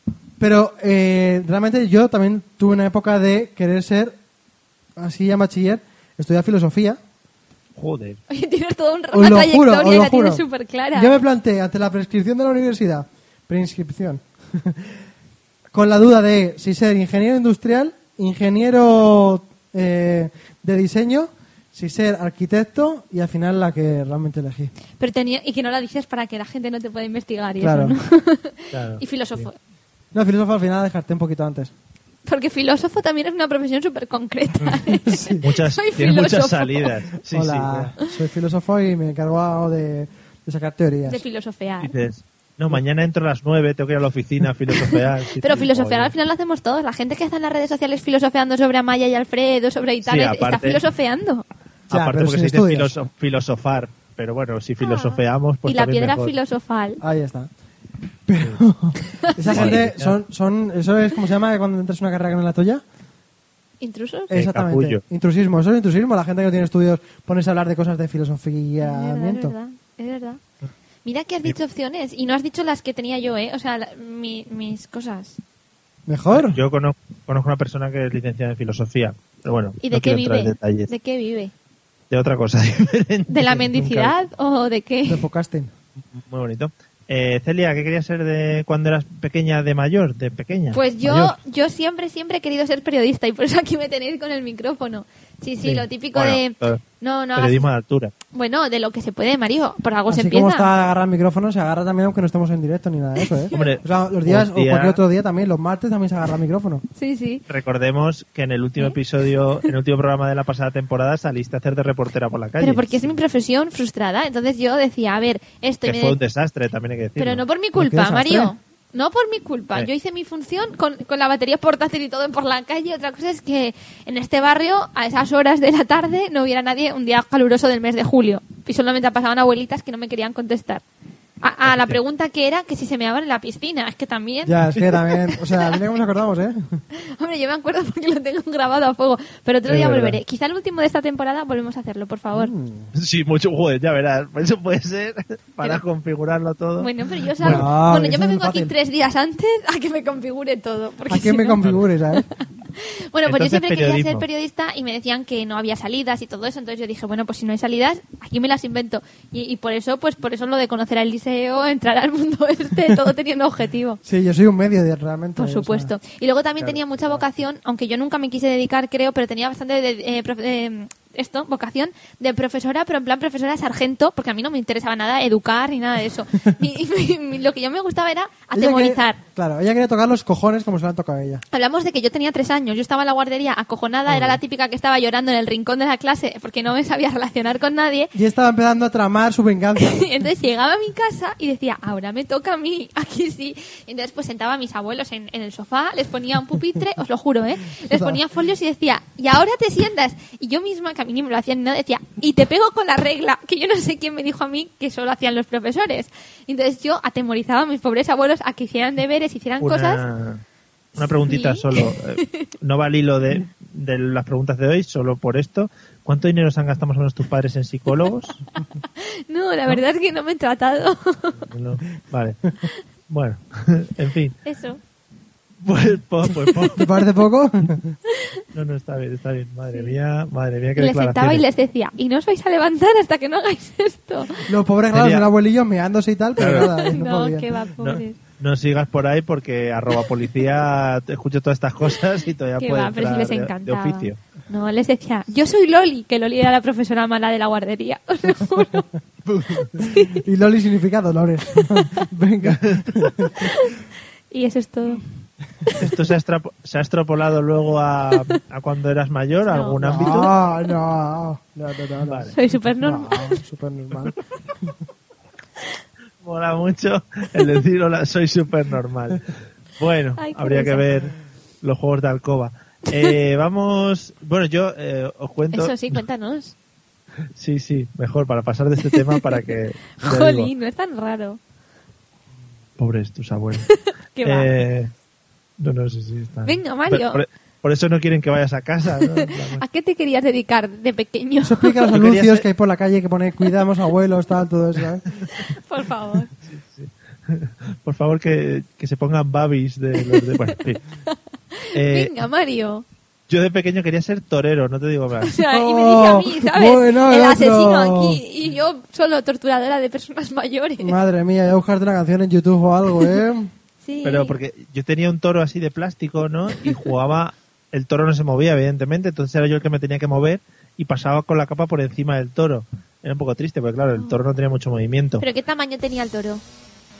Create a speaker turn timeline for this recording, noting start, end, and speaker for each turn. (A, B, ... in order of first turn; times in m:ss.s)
0:00.4-0:04.2 A
0:05.0-0:07.0 A
0:07.8-0:08.2 B
0:08.3-0:11.2 C
0:09.1-0:14.9 A
0:15.7-0:24.7 A
0:25.0-0:29.6 C
0:27.6-0:28.0 A
0:28.7-0:29.5 B
0:30.1-0:31.7 A
0:32.3-0:36.9 C
0:34.8-0:35.5 A
0:35.4-0:37.9 B
0:37.3-0:41.2 A
0:41.1-0:41.9 C
0:41.8-0:46.1 B
0:44.9-0:51.4 C
0:50.0-0:50.8 B
0:51.9-0:56.4 B
0:51.9-0:52.9 A
0:54.8-0:57.0 C
0:57.0-0:57.5 A
0:58.3-1:02.8 A
0:59.3-0:59.7 C
0:59.5-1:00.2 B
1:03.8-1:04.3 C
1:04.3-1:09.6 A
1:04.3-1:05.0 B
1:08.8-1:10.4 C
1:11.0-1:15.4 C
1:16.1-1:16.6 A
1:16.3-1:20.9 B
1:19.8-1:21.5 C
1:22.1-1:24.1 B
1:23.3-1:25.2 C
1:25.1-1:25.7 A
1:26.1-1:31.4 B
1:30.7-1:37.7 C
1:35.6-1:36.8 B
1:37.4-1:38.1 B
1:38.3-1:40.7 C
1:40.1-1:46.8 A
1:43.2-1:43.7 C
1:43.5-1:45.0 B
1:47.0-1:47.4 C
1:47.5-1:53.2 B
1:52.6-1:56.2 C
1:55.8-1:57.4 B
1:57.2-2:10.8 C
1:57.8-1:58.5 A
2:11.4-2:14.6 C
2:11.7-2:12.0 B
2:14.4-2:16.8 A
2:17.0-2:22.5 C
2:19.7-2:20.2 B
2:22.3-2:22.9 A
2:22.9-2:27.7 B
2:26.8-2:31.6 C
2:27.4-2:28.7 A
2:31.1-2:32.3 A
2:32.1-2:44.0 C
2:33.3-2:34.2 B
2:44.0-2:45.9 A
2:45.4-2:59.2 C
2:46.6-2:47.2 B
2:58.5-3:01.4 A
3:01.5-3:08.1 C
3:04.1-3:04.4 B
3:08.1-3:10.0 A
3:09.8-3:30.0 C
3:17.9-3:18.2 A
3:29.6-3:30.4 B
3:31.0-3:38.4 B
3:31.3-3:32.5 C
3:38.8-3:41.4 C
3:41.4-3:42.5 B
3:43.1-3:44.4 B
3:44.4-3:44.8 C
3:45.6-3:47.0 B
3:46.6-3:48.0 A
3:48.5-3:51.4 B
3:50.8-3:54.5 C
3:54.5-3:57.5 A
3:54.9-3:55.3 B
3:56.4-3:56.7 B
3:56.4-3:58.2 C
3:57.8-4:04.2 B
4:02.6-4:08.9 C
4:09.3-4:09.7 B
4:09.8-4:10.2 C
4:09.8-4:13.5 A
4:12.4-4:13.0 B
4:13.4-4:15.0 C
4:15.8-4:20.3 B
4:19.5-4:20.4 C
4:19.8-4:24.6 A
4:22.0-4:22.3 B
4:22.3-4:23.4 C
4:26.2-4:36.0 B
4:30.2-4:30.8 C
4:35.5-4:36.6 C
4:37.4-4:40.5 B
4:38.9-4:39.2 C
4:40.0-4:41.4 C
4:42.8-4:44.9 B
4:43.7-4:44.5 C
4:45.6-4:49.6 B
4:46.4-4:47.2 C
4:49.1-4:51.8 C
4:51.4-4:55.0 A
4:51.9-4:52.4 B
4:55.4-4:56.3 C
4:56.5-5:00.8 B
5:00.0-5:00.4 C
5:01.1-5:02.8 C
5:01.7-5:02.1 B
5:03.3-5:05.4 B
5:05.2-5:11.0 C
5:05.5-5:08.2 A
5:10.8-5:13.5 A
5:13.8-5:14.4 C
5:14.0-5:25.2 B
5:25.2-5:26.4 C